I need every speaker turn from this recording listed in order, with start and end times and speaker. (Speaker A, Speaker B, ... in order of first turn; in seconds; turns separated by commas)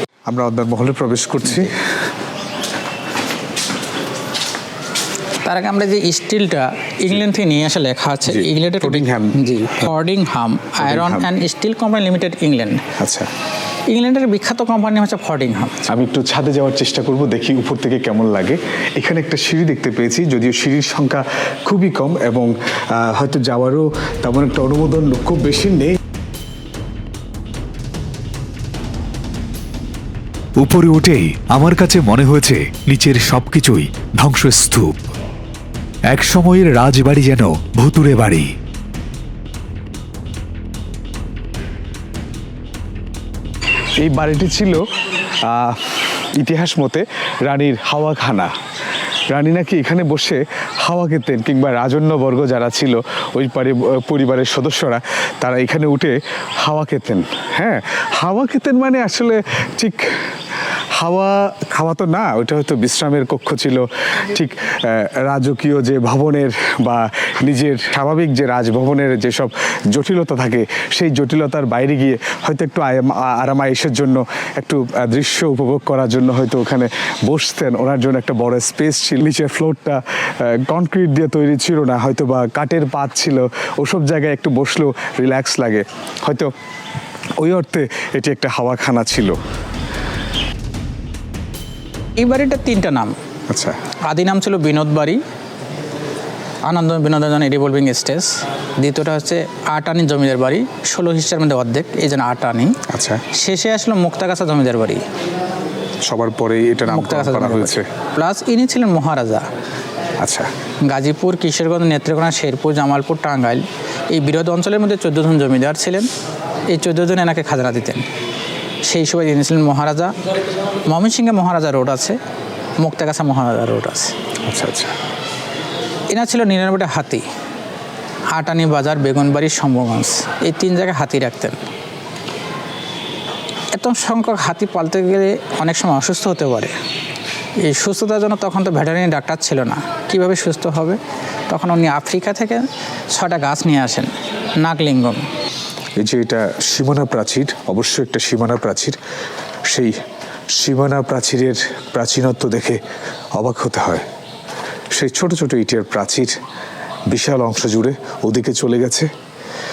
Speaker A: 0.3-1.8, Speaker B: 5.4-12.8, Speaker A: 8.3-9.5, Speaker A: 10.8-11.3, Speaker A: 13.0-13.3, Speaker B: 13.9-15.8, Speaker A: 15.9-26.0, Speaker C: 30.6-35.1, Speaker C: 36.1-38.5, Speaker A: 44.0-44.8, Speaker A: 45.5-48.5, Speaker A: 49.3-60.0, Speaker A: 61.0-86.5, Speaker A: 87.4-89.4, Speaker B: 92.2-93.2, Speaker A: 93.5-93.8, Speaker B: 94.1-95.2, Speaker B: 96.7-102.8, Speaker A: 102.9-103.2, Speaker B: 103.3-105.0, Speaker A: 106.0-107.9, Speaker B: 106.9-109.5, Speaker A: 110.2-110.5, Speaker B: 110.9-116.1, Speaker B: 116.7-118.1, Speaker B: 118.9-122.2, Speaker B: 122.8-124.1, Speaker A: 124.5-124.9, Speaker B: 126.1-127.3, Speaker B: 128.3-131.6, Speaker B: 133.7-136.8, Speaker B: 137.7-145.3, Speaker A: 146.0-149.0, Speaker A: 149.7-149.9, Speaker A: 150.6-152.8, Speaker A: 153.4-154.0, Speaker A: 154.9-156.4, Speaker A: 157.1-159.1